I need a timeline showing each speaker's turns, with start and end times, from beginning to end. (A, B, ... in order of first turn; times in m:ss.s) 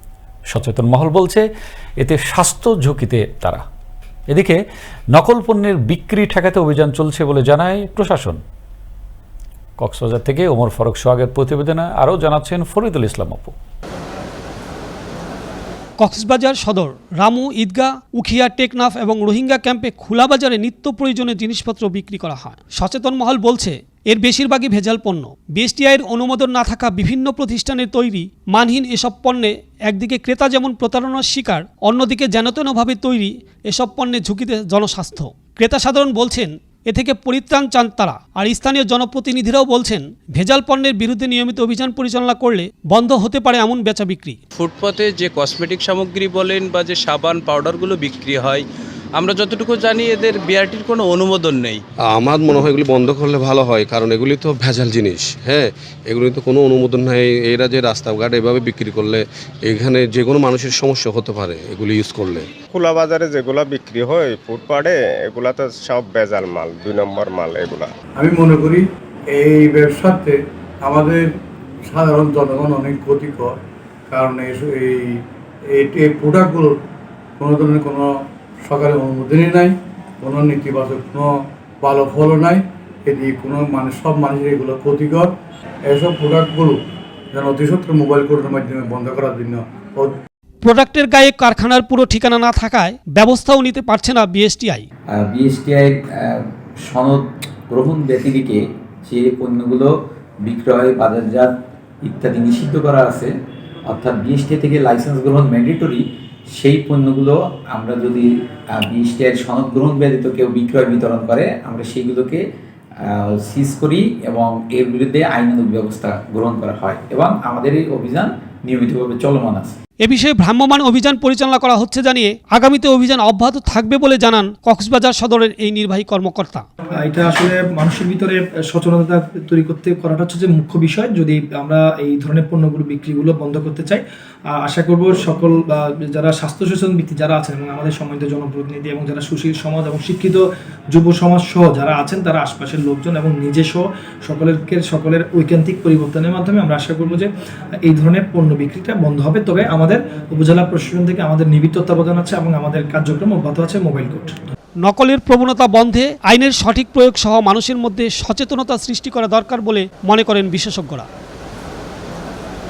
0:00.5-0:01.4 A
0:02.0-0:03.6 A
0:04.3-0:04.6 A
0:05.1-0:08.4 A
0:09.8-0:13.5 A
0:16.0-0:44.4 B
0:44.5-0:51.8 C
0:52.0-1:02.5 D
1:02.7-1:07.9 E
1:08.2-1:11.3 F
1:11.9-1:13.6 F
1:14.1-1:15.2 F
1:15.7-1:16.7 F
1:17.4-1:18.1 F
1:18.6-1:21.3 F
1:21.8-1:25.3 F
1:25.8-1:26.8 F
1:27.3-1:30.1 F
1:30.6-1:34.8 B
1:35.1-1:39.9 G
1:40.4-1:41.5 G
1:42.0-1:43.3 G
1:43.9-1:52.4 G
1:53.1-1:59.7 G
2:00.0-2:06.6 B
2:07.0-2:27.3 H
2:27.8-2:34.4 H
2:34.8-2:41.1 B